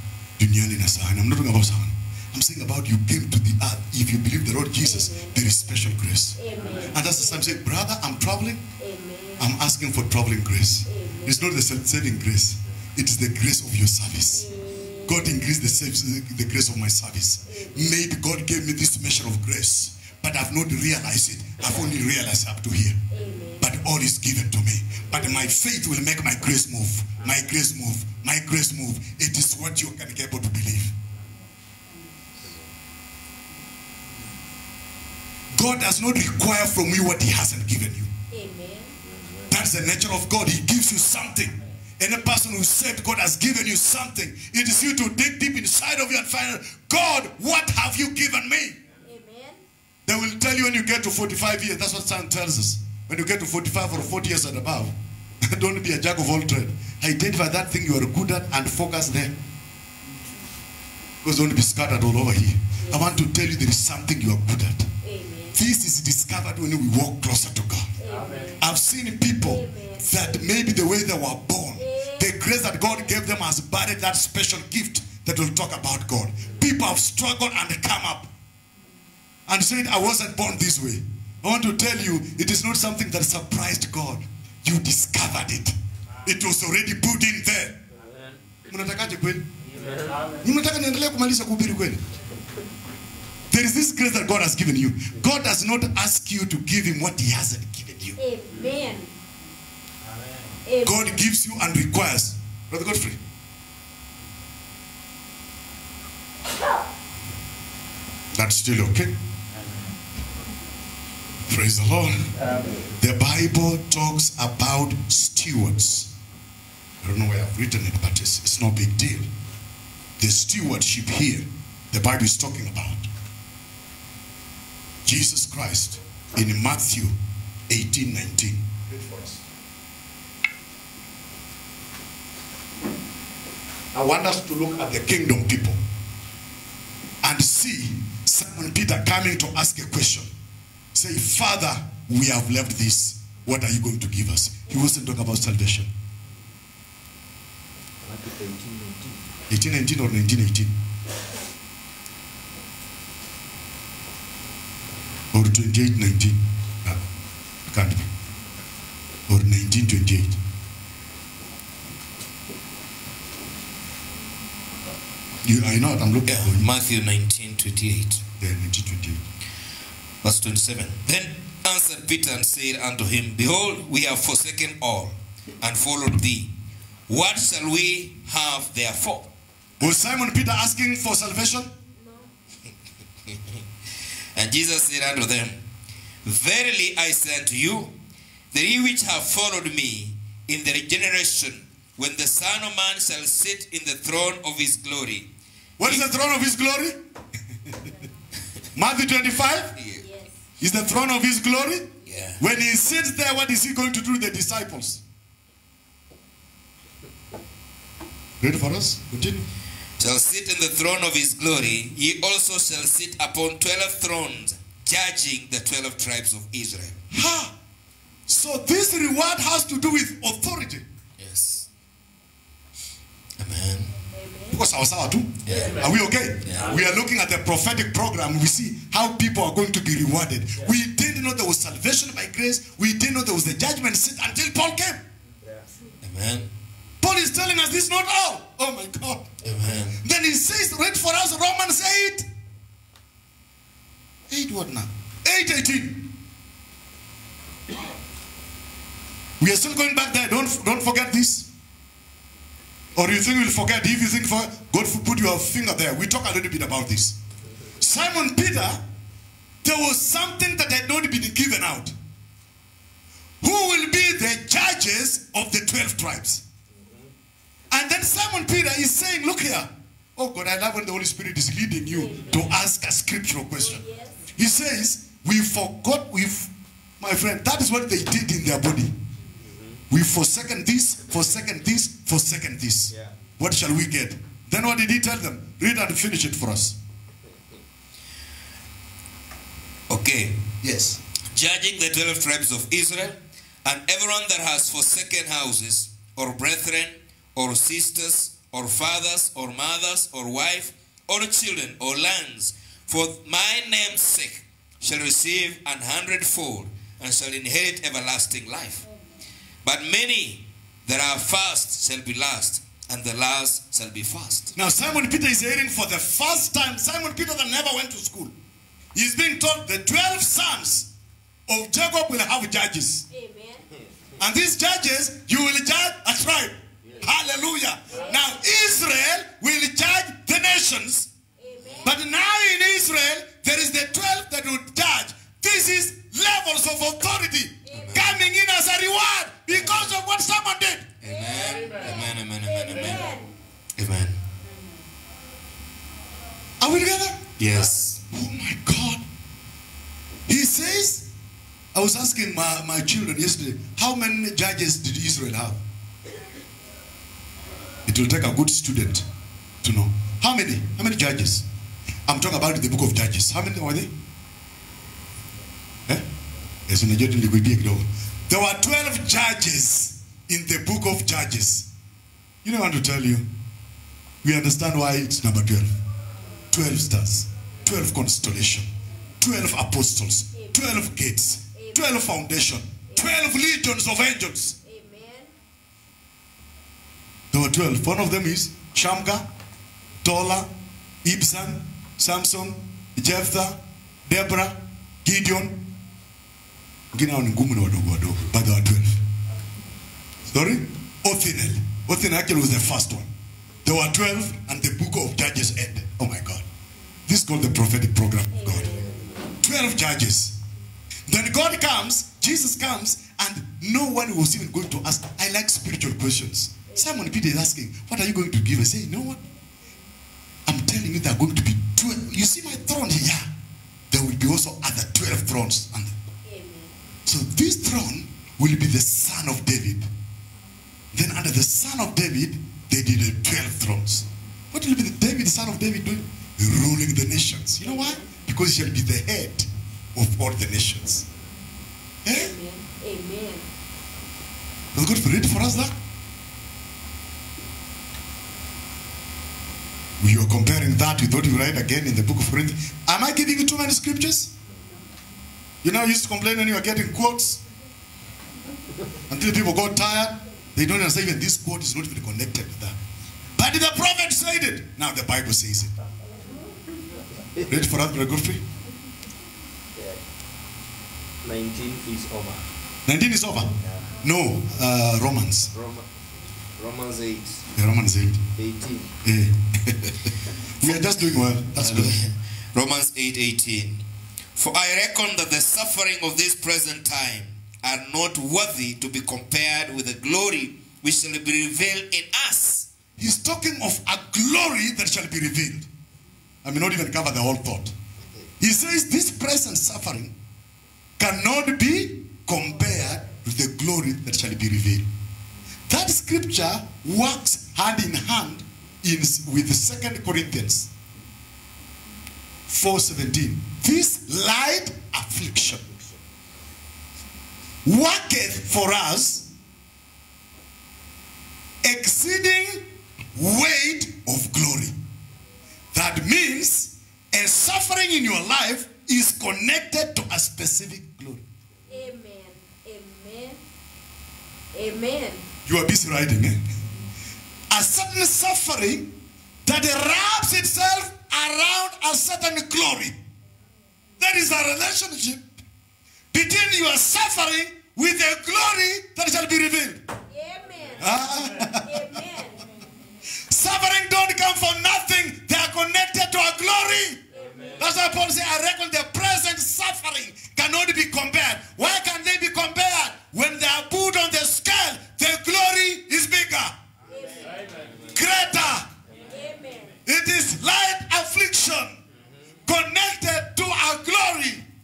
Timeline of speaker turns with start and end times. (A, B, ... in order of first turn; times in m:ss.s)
0:00.4-0:08.6 A
0:04.8-0:05.5 B
0:06.4-0:07.5 B
0:08.8-0:09.6 B
0:09.4-0:14.4 A
0:10.9-0:11.4 B
0:14.4-0:15.2 B
0:15.0-0:23.0 A
0:17.5-0:17.9 B
0:23.1-0:23.7 B
0:23.6-0:30.9 A
0:35.5-0:38.1 A
0:38.3-0:38.9 B
0:39.0-0:39.5 C
0:39.5-0:48.8 A
0:49.0-0:49.6 B
0:50.1-0:54.9 A
0:55.4-0:59.4 A
1:01.2-1:04.9 A
1:02.8-1:03.1 B
1:05.0-1:05.6 B
1:05.5-1:07.9 A
1:08.0-1:08.6 B
1:08.6-1:18.3 A
1:09.5-1:10.2 B
1:11.8-1:12.3 B
1:19.5-1:27.8 A
1:27.9-1:28.4 C
1:28.7-1:29.5 A
1:29.6-1:30.3 C
1:30.4-1:32.0 A
1:33.5-1:38.2 A
1:38.2-1:39.1 B
1:40.6-1:41.0 B
1:40.8-1:43.2 A
1:48.4-1:49.2 A
1:51.5-1:52.3 A
1:53.0-1:56.1 A
1:57.0-1:59.3 A
2:00.2-2:03.1 A
2:05.0-2:07.1 A
2:07.7-2:09.4 A
2:13.9-2:15.8 A
2:17.2-2:20.3 A
2:20.9-2:25.9 A
2:28.0-2:29.2 C
2:29.5-2:30.7 A
2:35.3-2:37.0 A
2:37.7-2:38.1 A
2:39.3-2:40.4 A
2:45.4-2:46.7 A
2:46.3-2:48.2 D
2:48.4-2:49.2 A
2:50.2-2:56.5 D
2:57.1-2:59.3 D
2:59.8-3:01.7 A
3:01.9-3:02.3 B
3:03.3-3:03.6 D
3:04.4-3:05.6 D
3:06.2-3:07.9 D
3:08.5-3:16.1 D
3:15.8-3:17.0 A
3:18.7-3:19.8 A
3:19.8-3:20.1 D
3:20.0-3:20.4 B
3:20.6-3:25.0 A
3:22.1-3:22.4 D
3:28.4-3:29.5 A
3:30.0-3:37.0 D
3:37.1-3:37.5 A
3:38.3-3:40.9 A
3:41.2-3:41.7 D
3:43.4-3:43.9 D
3:44.1-3:44.6 B
3:44.5-3:55.0 A
3:45.4-3:45.9 D
3:45.5-3:46.0 C
3:46.4-3:46.8 D
3:55.4-3:55.7 C
3:56.0-3:56.5 D
3:57.0-3:59.3 A
3:59.4-4:00.0 D
4:00.0-4:02.3 A
4:04.3-4:06.1 A
4:09.4-4:11.5 A
4:13.0-4:17.2 A
4:17.8-4:18.8 A
4:19.6-4:21.9 A
4:23.4-4:26.4 A
4:26.7-4:27.1 C
4:27.7-4:33.8 A
4:31.9-4:32.4 B
4:33.6-4:34.2 B
4:34.4-4:38.9 A
4:39.4-4:39.8 C
4:39.9-4:46.8 A
4:42.9-4:43.2 C
4:49.9-4:50.4 D
4:50.6-4:51.0 A
4:51.3-5:08.8 D
5:09.6-5:14.6 D
5:14.6-5:18.3 A
5:18.9-5:20.9 A
5:21.5-5:23.1 A
5:23.1-5:23.7 B
5:24.2-5:31.1 A
5:27.9-5:28.3 B
5:31.4-5:31.9 B
5:31.8-5:40.9 A
5:37.7-5:38.1 B
5:37.7-5:38.2 D
5:41.0-5:43.2 D
5:41.1-5:43.3 B
5:43.8-5:44.2 D
5:46.6-5:47.3 A
5:47.4-5:48.0 D
5:48.0-5:49.0 A
5:50.3-5:51.1 A
5:51.7-5:55.6 A
5:57.9-5:59.1 A
5:59.6-6:01.4 A
6:02.1-6:03.9 A
6:06.7-6:11.7 A
6:12.4-6:13.3 A
6:14.2-6:15.7 A
6:16.5-6:18.7 A
6:19.2-6:24.6 A
6:20.4-6:20.6 B
6:21.6-6:22.1 B
6:24.6-6:25.3 B
6:27.3-6:29.3 A
6:30.0-6:30.5 A
6:31.0-6:35.6 A
6:36.9-6:39.0 A
6:40.3-6:43.1 A
6:43.6-6:46.4 A
6:47.1-6:48.7 A
6:48.4-6:49.2 B
6:49.4-6:50.4 A
6:51.1-6:59.2 A
6:56.7-6:57.0 B
7:00.4-7:03.3 A
7:03.9-7:05.9 A
7:06.3-7:06.7 B
7:07.1-7:09.9 A
7:10.9-7:21.1 A
7:22.0-7:22.3 A
7:22.1-7:23.5 B
7:24.7-7:25.7 A
7:30.0-7:34.3 A
7:35.6-7:37.4 A
7:39.1-7:42.8 A
7:43.4-7:45.7 A
7:47.5-7:48.4 A
7:49.8-7:50.0 C
7:51.2-7:52.5 C
7:52.8-7:55.5 A
7:53.6-7:53.9 C
7:55.5-7:56.0 C
7:56.5-7:57.5 C
7:57.6-7:58.2 A
7:58.4-7:58.9 C
7:59.0-8:00.0 A
8:00.6-8:02.0 A
8:01.6-8:03.8 D
8:04.4-8:12.7 D
8:13.0-8:15.7 A
8:16.4-8:17.7 A
8:18.4-8:20.1 A
8:21.0-8:24.9 A
8:25.7-8:30.7 A
8:32.5-8:35.6 A
8:37.6-8:39.3 A
8:41.6-8:44.7 A
8:45.7-8:51.2 A
8:51.7-8:53.4 B
8:54.5-8:55.3 B
8:55.4-8:56.4 A
8:57.5-9:03.0 A
9:04.0-9:05.3 A
9:06.1-9:09.8 A
9:10.1-9:12.4 B
9:10.8-9:11.9 A
9:13.2-9:17.0 A
9:17.1-9:17.8 B
9:17.1-9:17.6 C
9:17.6-9:26.6 A
9:26.9-9:27.4 B
9:27.4-9:27.9 C
9:27.9-9:28.7 A
9:28.9-9:29.1 C
9:29.1-9:29.8 B
9:29.8-9:31.8 A
9:32.5-9:34.4 A